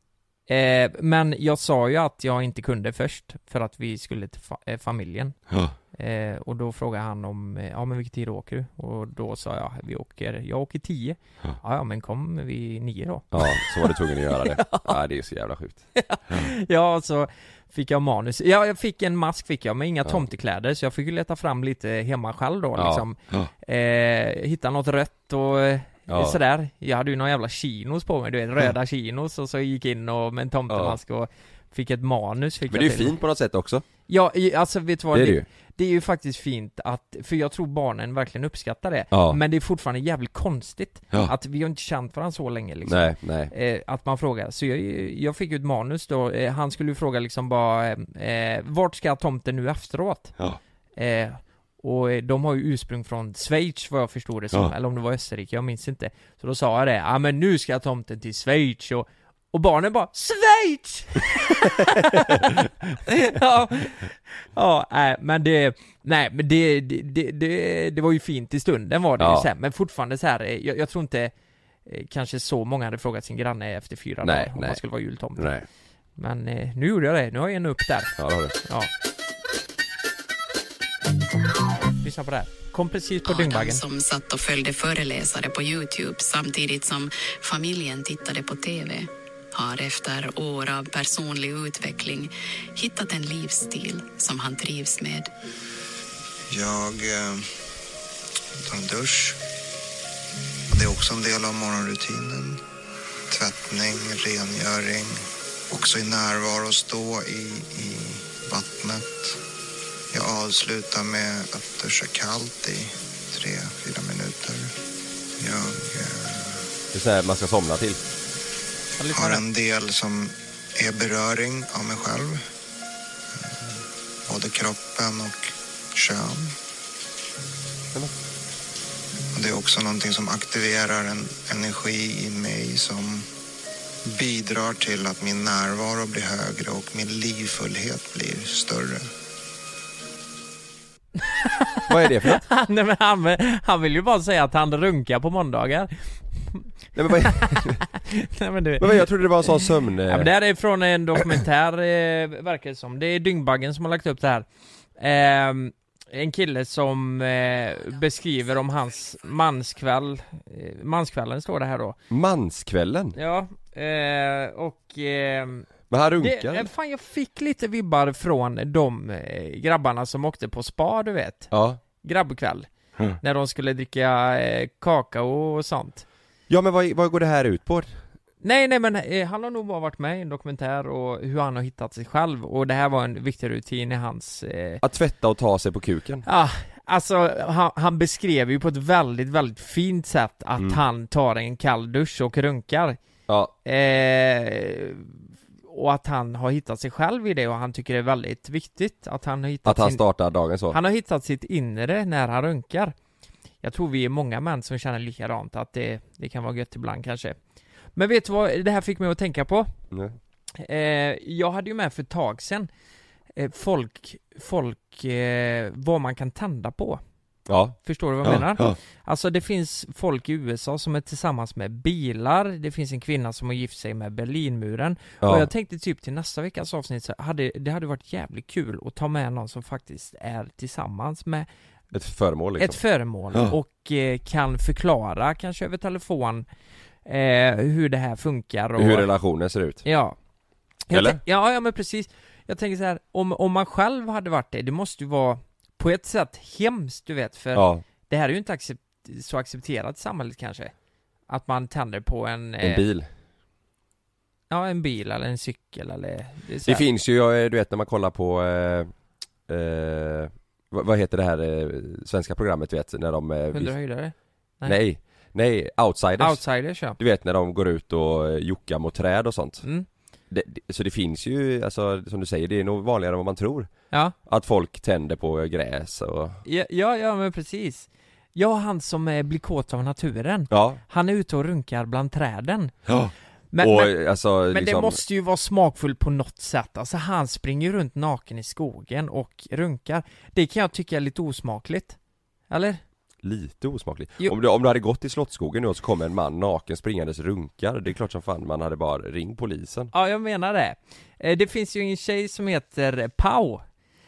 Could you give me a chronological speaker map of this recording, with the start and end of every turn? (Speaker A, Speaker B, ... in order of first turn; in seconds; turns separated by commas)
Speaker A: 0.5-5.4, Speaker B: 5.5-5.8, Speaker A: 5.9-15.0, Speaker B: 13.3-16.5, Speaker A: 15.9-33.2, Speaker B: 22.8-23.5, Speaker B: 26.1-26.4, Speaker B: 30.7-31.0, Speaker B: 32.7-33.8, Speaker A: 34.1-50.4, Speaker B: 35.1-35.5, Speaker B: 39.1-39.4, Speaker B: 42.9-43.5, Speaker A: 51.0-71.3, Speaker B: 62.2-62.5, Speaker B: 69.2-69.5, Speaker A: 71.9-75.5, Speaker B: 74.2-74.8, Speaker B: 75.4-75.7, Speaker A: 76.2-78.9, Speaker B: 78.2-78.5, Speaker A: 82.0-83.8, Speaker C: 83.2-95.3, Speaker D: 96.5-97.5, Speaker D: 98.6-99.4, Speaker D: 100.7-102.6, Speaker D: 103.3-109.4, Speaker D: 110.1-114.7, Speaker D: 115.4-116.6, Speaker B: 116.9-118.0, Speaker A: 119.0-119.4, Speaker D: 119.1-122.4, Speaker D: 124.3-126.5, Speaker D: 129.3-133.3, Speaker D: 134.1-139.1, Speaker A: 141.2-162.0, Speaker B: 141.9-142.4, Speaker B: 146.9-147.8, Speaker B: 148.8-150.3, Speaker B: 162.1-163.2, Speaker A: 163.2-165.7, Speaker B: 165.9-166.7, Speaker A: 166.2-176.1, Speaker B: 171.5-171.8, Speaker B: 176.5-177.9, Speaker A: 178.4-184.8, Speaker B: 184.8-186.2, Speaker A: 186.2-193.0, Speaker B: 193.3-193.5, Speaker A: 193.7-200.0, Speaker B: 199.7-200.8, Speaker A: 200.7-202.9, Speaker A: 203.6-207.4, Speaker A: 207.9-209.7, Speaker A: 210.6-212.7, Speaker A: 213.3-217.0, Speaker B: 217.5-218.8, Speaker A: 217.8-231.5, Speaker B: 225.2-225.5, Speaker B: 231.9-232.8, Speaker A: 232.6-236.5, Speaker A: 237.1-239.1, Speaker B: 238.8-239.8, Speaker A: 239.8-240.2, Speaker A: 240.9-250.7, Speaker B: 240.9-241.2, Speaker B: 247.6-247.8, Speaker A: 251.3-252.8, Speaker B: 252.6-253.1, Speaker A: 254.5-256.8, Speaker B: 256.7-258.9, Speaker B: 259.5-263.7, Speaker A: 263.5-264.8, Speaker B: 264.7-266.4, Speaker A: 266.2-267.0, Speaker B: 266.9-269.6, Speaker A: 269.6-269.9, Speaker B: 270.3-273.7, Speaker A: 273.9-274.2, Speaker B: 274.3-276.4, Speaker A: 276.4-282.8, Speaker B: 280.5-280.8, Speaker B: 282.9-285.0, Speaker A: 283.5-283.9, Speaker A: 284.5-292.0, Speaker A: 292.5-292.8, Speaker B: 293.2-299.9, Speaker A: 299.9-303.6